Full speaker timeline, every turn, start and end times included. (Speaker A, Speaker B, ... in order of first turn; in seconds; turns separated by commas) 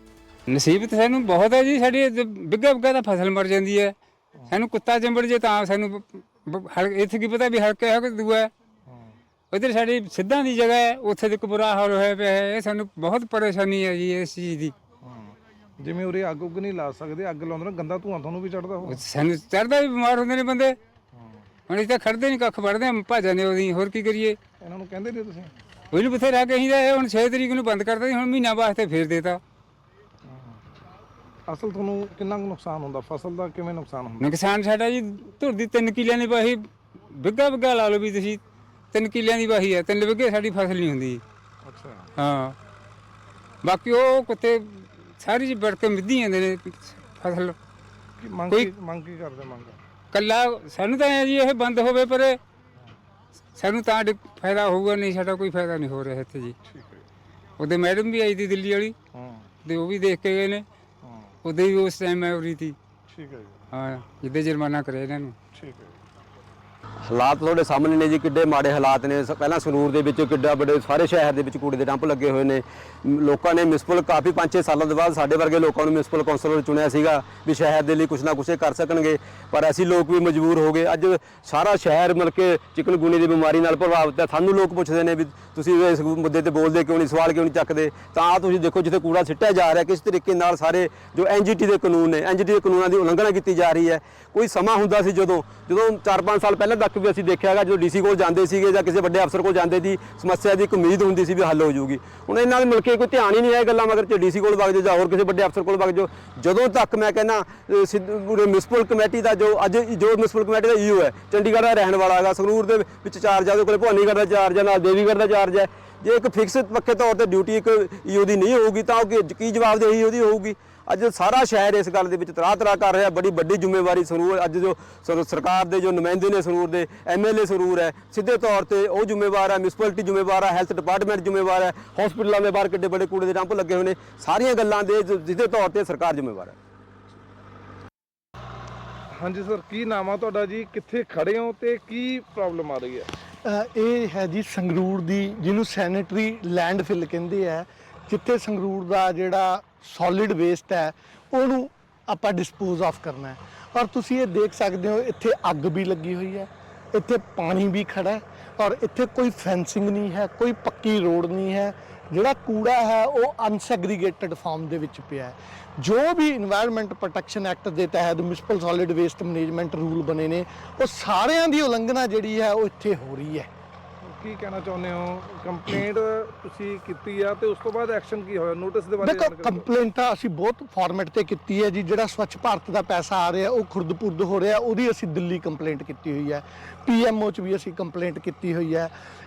Speaker A: 0.5-3.9, Speaker A: 4.5-8.5, Speaker B: 8.9-9.1, Speaker A: 9.5-14.7, Speaker B: 15.0-19.0, Speaker A: 18.9-20.8, Speaker B: 21.1-21.4, Speaker A: 21.7-24.4, Speaker B: 24.6-25.5, Speaker A: 25.9-29.4, Speaker B: 30.3-30.6, Speaker B: 31.5-34.3, Speaker A: 34.2-36.6, Speaker A: 37.1-38.4, Speaker A: 38.9-41.2, Speaker B: 41.6-42.1, Speaker A: 42.2-42.5, Speaker A: 43.6-47.6, Speaker B: 48.2-49.8, Speaker A: 50.1-52.4, Speaker A: 53.6-56.6, Speaker B: 56.6-57.1, Speaker A: 57.6-58.9, Speaker B: 59.1-59.5, Speaker A: 59.6-60.6, Speaker B: 61.0-61.3, Speaker A: 61.4-62.8, Speaker B: 63.1-63.6, Speaker A: 63.7-65.3, Speaker B: 65.5-66.0, Speaker C: 67.1-136.6, Speaker B: 139.1-143.1, Speaker D: 143.4-173.5, Speaker B: 174.0-179.7, Speaker D: 179.0-188.9